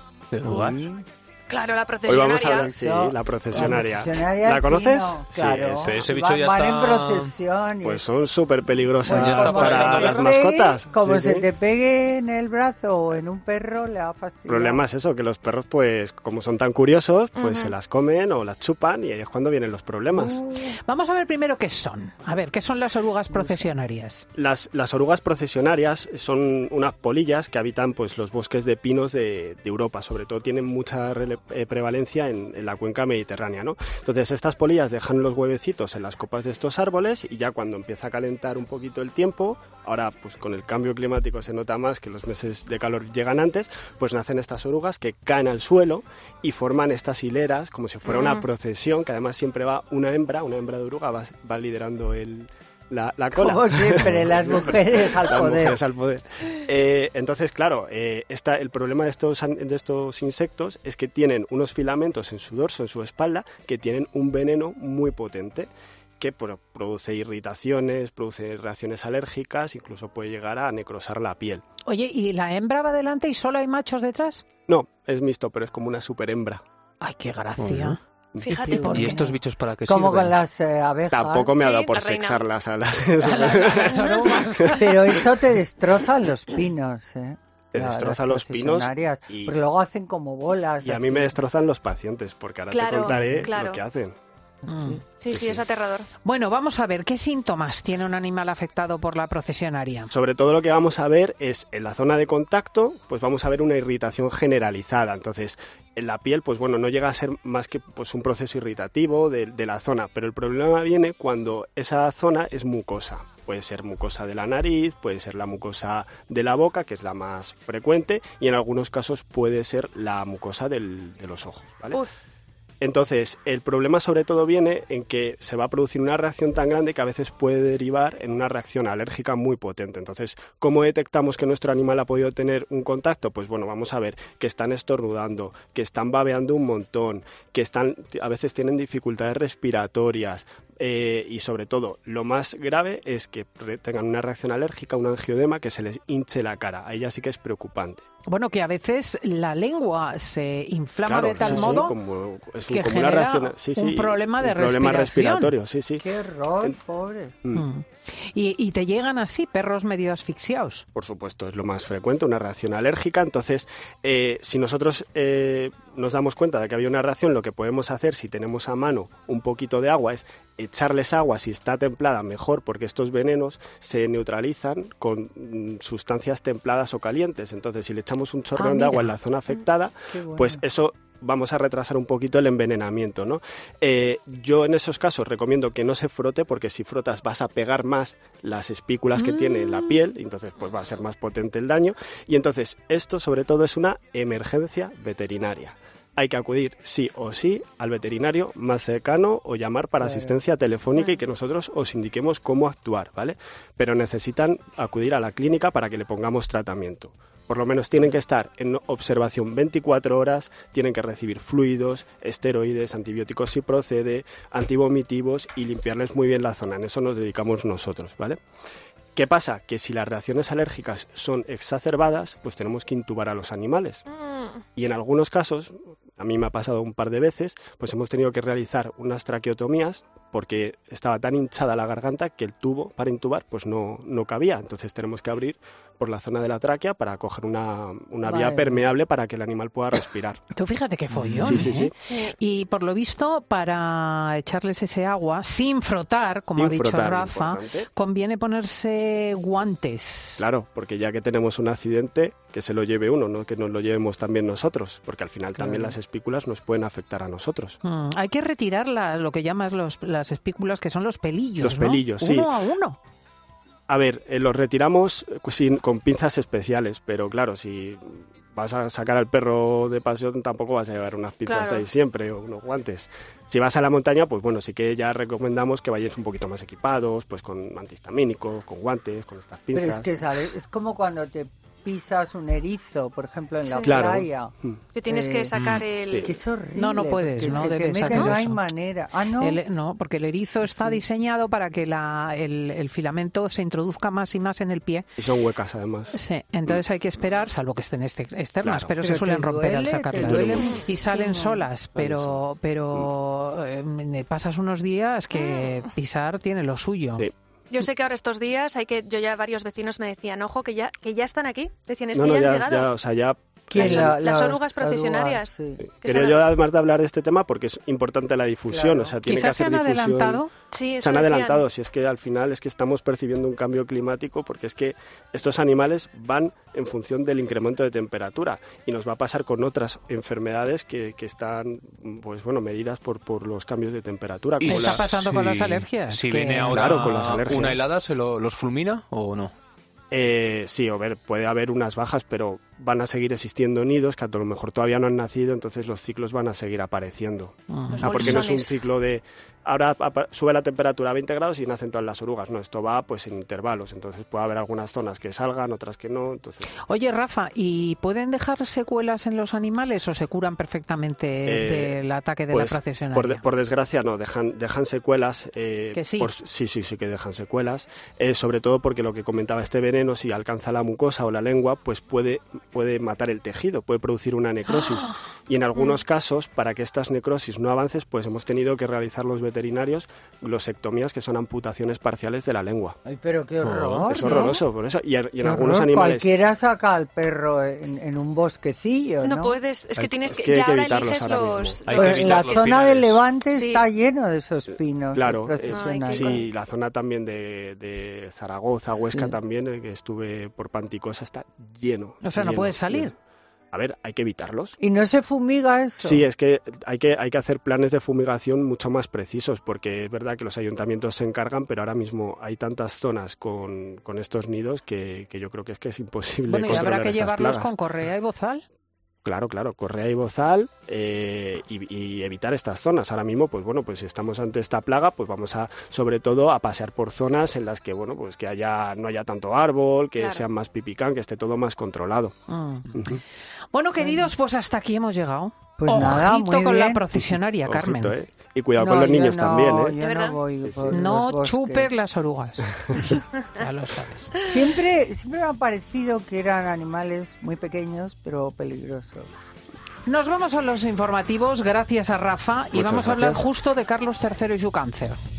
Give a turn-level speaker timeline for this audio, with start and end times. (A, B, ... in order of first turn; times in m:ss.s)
0:00.3-0:00.8 A
0:00.4-0:01.0 B
0:01.5-0:02.7 C
0:02.0-0:06.1 D
0:02.5-0:08.0 B
0:05.8-0:07.3 A
0:07.8-0:11.4 D
0:09.0-0:14.8 B
0:09.0-0:10.3 A
0:14.5-0:20.4 D
0:17.4-0:17.7 C
0:20.1-0:24.2 E
0:23.3-0:23.7 B
0:24.3-1:11.6 D
0:48.1-0:48.4 C
0:53.3-0:55.8 B
1:11.8-1:14.4 E
1:14.7-1:16.6 D
1:17.0-1:19.4 E
1:17.6-1:18.0 A
1:18.4-1:19.0 C
1:18.5-1:21.5 B
1:18.8-1:20.4 A
1:21.1-1:24.8 D
1:21.6-1:22.4 C
1:23.2-1:25.2 E
1:23.7-1:24.0 C
1:24.7-1:31.4 B
1:27.7-1:29.6 D
1:30.8-1:34.2 D
1:32.7-1:33.8 C
1:34.6-1:35.0 B
1:34.7-1:35.0 E
1:35.2-1:36.1 C
1:35.3-1:35.6 D
1:36.2-1:40.1 E
1:40.1-2:02.0 D
2:02.8-2:28.0 D
2:28.3-2:31.9 E
2:31.0-2:36.1 D
2:32.7-2:35.5 E
2:36.0-2:37.4 B
2:37.5-2:40.8 E
2:40.9-3:38.4 D
2:58.6-2:59.1 E
3:00.1-3:00.6 B
3:20.0-3:20.4 B
3:39.1-3:44.0 D
3:44.1-3:44.6 C
3:44.7-4:00.4 D
3:58.2-3:58.9 B
4:00.5-4:10.4 E
4:01.1-4:01.6 A
4:01.4-4:01.9 D
4:02.0-4:02.3 C
4:06.5-4:07.9 D
4:10.4-4:17.8 D
4:17.8-4:23.0 E
4:21.6-4:22.5 D
4:23.9-4:40.2 D
4:31.4-4:31.9 C
4:39.7-4:44.5 B
4:43.6-4:43.9 C
4:43.8-4:44.8 D
4:44.9-4:46.3 C
4:45.1-4:45.5 B
4:45.5-4:45.9 A
4:46.1-4:46.3 D
4:46.2-4:49.6 B
4:46.7-4:48.6 E
4:49.4-4:55.1 E
4:50.6-4:51.0 B
4:55.2-4:56.1 D
4:56.1-5:07.3 E
4:58.6-4:58.9 D
4:59.0-5:01.7 B
5:00.2-5:00.7 D
5:00.6-5:01.0 C
5:01.9-5:02.4 D
5:05.3-5:05.8 C
5:07.7-5:12.9 C
5:12.1-5:14.2 D
5:13.7-5:15.8 B
5:13.7-5:15.5 C
5:15.9-5:20.4 D
5:16.0-5:16.4 C
5:18.7-5:19.1 B
5:19.2-5:20.5 E
5:20.7-5:21.6 C
5:21.0-5:35.0 D
5:34.6-5:39.5 A
5:34.6-5:36.7 E
5:36.6-5:37.8 D
5:40.1-5:56.7 D
5:47.7-5:48.4 E
5:47.9-5:48.8 C
5:56.8-6:03.4 E
6:01.4-6:02.0 D
6:02.5-6:23.0 D
6:05.9-6:06.3 E
6:23.0-6:24.5 B
6:23.6-6:24.2 A
6:24.1-6:26.3 D
6:24.2-6:24.6 C
6:25.4-6:29.6 B
6:29.2-6:32.3 C
6:30.0-6:30.3 A
6:30.2-6:32.6 D
6:31.8-6:33.2 A
6:31.9-6:36.4 B
6:33.5-6:33.8 C
6:35.1-6:43.1 D
6:35.7-6:36.4 C
6:39.0-6:39.4 B
6:42.2-6:43.1 E
6:43.7-6:44.8 D
6:44.8-6:46.2 B
6:46.0-6:57.7 D
6:56.5-6:58.6 E
6:59.2-7:12.4 D
7:10.2-7:10.4 C
7:12.5-7:13.2 E
7:12.9-7:13.2 D
7:13.7-7:18.2 E
7:14.0-7:14.3 B
7:15.8-7:17.4 B
7:17.6-7:20.0 D
7:18.8-7:22.0 B
7:20.0-7:20.4 C
7:20.6-7:21.0 D
7:20.9-7:24.3 E
7:24.4-7:29.3 B
7:30.0-7:35.2 E
7:32.7-7:33.4 D